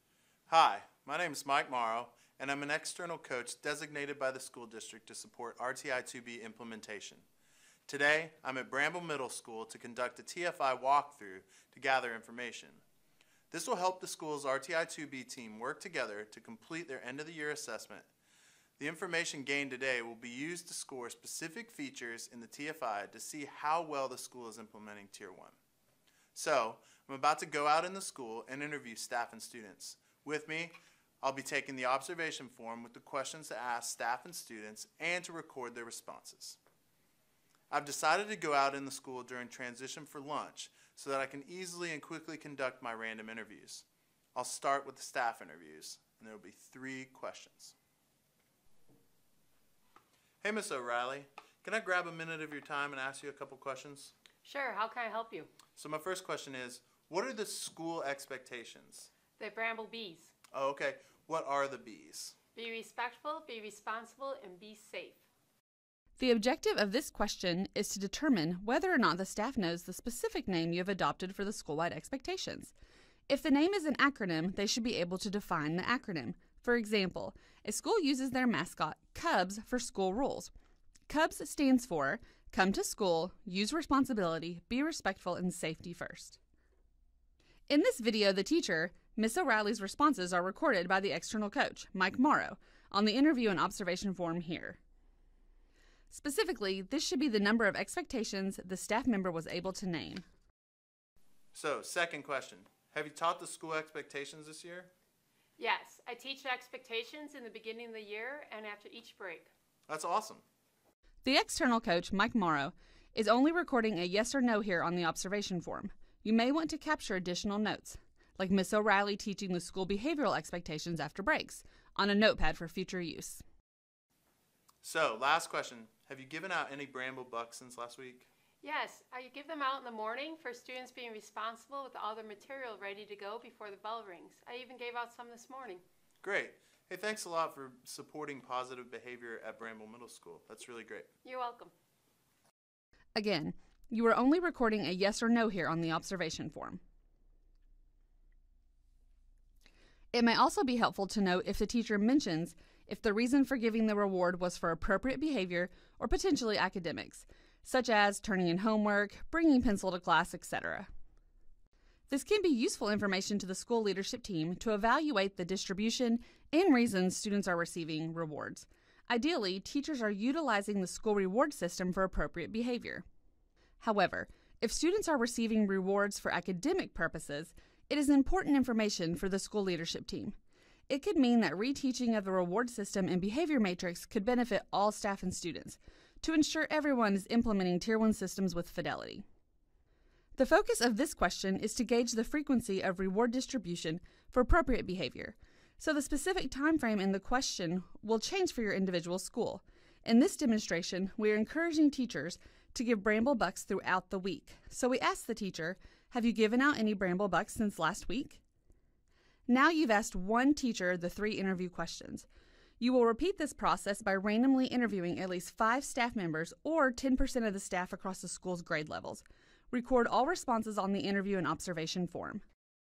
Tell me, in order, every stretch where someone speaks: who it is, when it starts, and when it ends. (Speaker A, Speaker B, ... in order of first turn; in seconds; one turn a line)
Speaker A: 0.5-7.2
Speaker A: 7.9-12.8
Speaker A: 13.5-18.1
Speaker A: 18.8-25.6
Speaker A: 26.3-36.6
Speaker A: 37.7-47.7
Speaker A: 50.4-54.1
Speaker B: 54.4-55.5
Speaker A: 55.8-59.1
Speaker B: 59.4-60.3
Speaker A: 60.5-62.4
Speaker B: 62.5-65.2
Speaker C: 66.2-72.7
Speaker C: 73.3-80.5
Speaker C: 81.1-86.4
Speaker C: 87.7-94.8
Speaker C: 96.1-100.2
Speaker A: 101.5-104.9
Speaker B: 105.6-109.5
Speaker A: 109.9-110.4
Speaker C: 111.2-123.4
Speaker A: 124.8-128.3
Speaker B: 128.6-135.8
Speaker A: 136.2-141.1
Speaker B: 141.2-141.7
Speaker C: 143.1-146.8
Speaker C: 150.1-160.9
Speaker C: 162.1-173.0
Speaker C: 173.8-180.3
Speaker C: 180.9-189.2
Speaker C: 190.3-208.4
Speaker C: 209.5-212.3
Speaker C: 212.8-222.4